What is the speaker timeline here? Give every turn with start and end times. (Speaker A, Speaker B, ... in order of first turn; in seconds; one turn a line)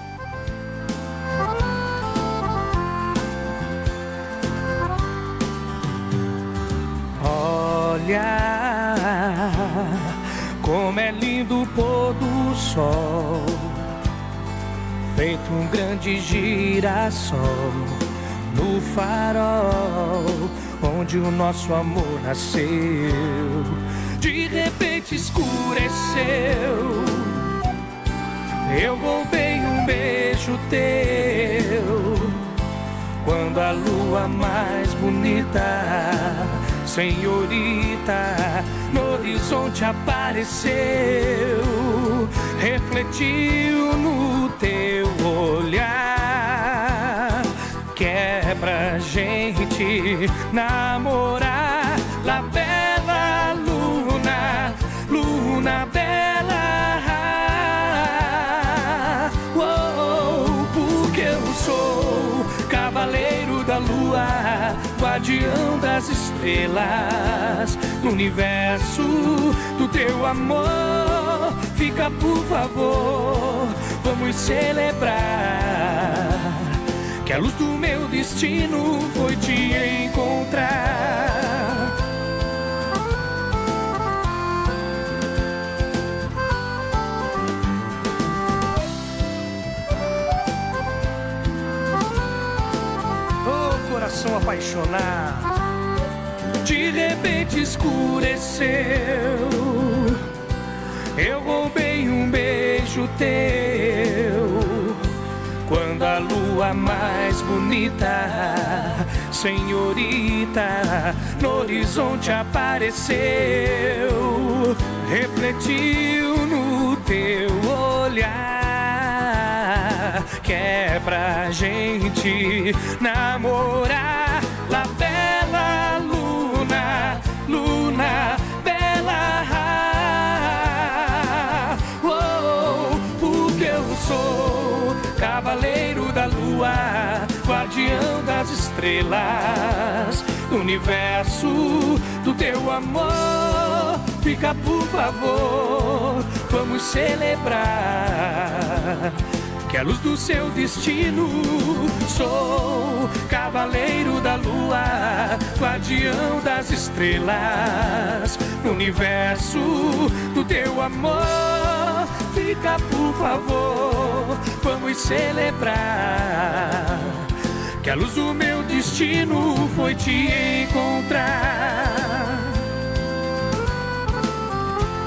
Speaker A: 7.2-13.8
Speaker A: 15.1-27.5
Speaker A: 28.7-32.4
Speaker A: 33.2-81.9
Speaker A: 93.4-95.5
Speaker A: 96.6-100.2
Speaker A: 101.2-105.1
Speaker A: 105.7-167.3
Speaker A: 167.8-172.6